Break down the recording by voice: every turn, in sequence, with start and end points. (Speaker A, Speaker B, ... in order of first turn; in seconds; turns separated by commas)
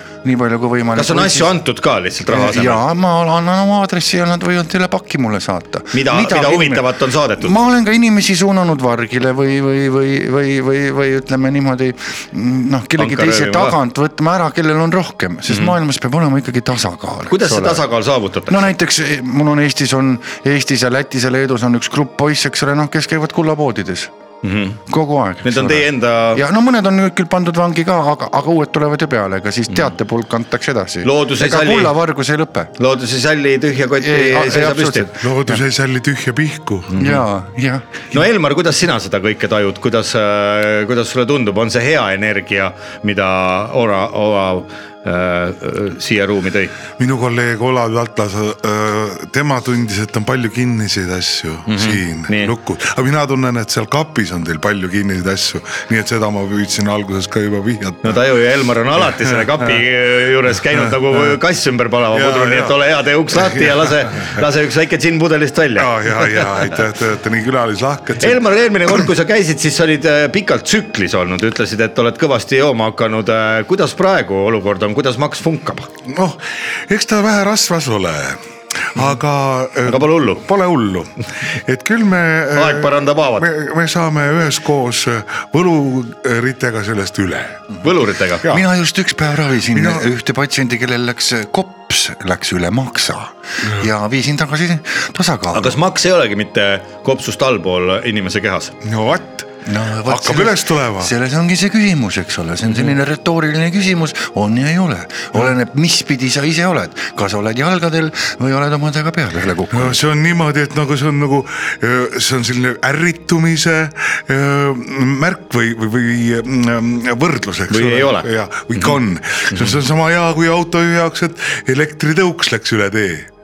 Speaker A: 0.2-1.6, Speaker B: 0.9-2.8, Speaker A: 2.3-17.8, Speaker B: 5.9-7.5, Speaker B: 13.0-13.8, Speaker B: 15.5-15.8, Speaker B: 17.3-18.7, Speaker A: 18.5-24.1, Speaker B: 24.4-24.8, Speaker A: 24.9-32.7, Speaker B: 25.4-26.4, Speaker B: 31.0-32.0, Speaker B: 32.8-35.1, Speaker A: 34.0-35.6, Speaker C: 35.2-37.0, Speaker B: 36.9-37.2, Speaker A: 37.0-38.0, Speaker B: 38.1-46.8, Speaker C: 47.0-58.2, Speaker B: 51.7-52.5, Speaker B: 58.0-66.5, Speaker C: 62.1-62.8, Speaker C: 63.3-64.4, Speaker C: 65.8-68.5, Speaker B: 68.2-75.9, Speaker C: 76.1-87.8, Speaker B: 79.9-80.5, Speaker B: 82.5-83.5, Speaker B: 87.8-88.5, Speaker A: 88.5-95.8, Speaker C: 89.7-90.0, Speaker B: 95.5-98.7, Speaker C: 98.8-99.5, Speaker A: 99.7-110.0, Speaker C: 100.0-101.1, Speaker C: 109.7-123.3, Speaker B: 117.7-119.0, Speaker B: 119.5-119.8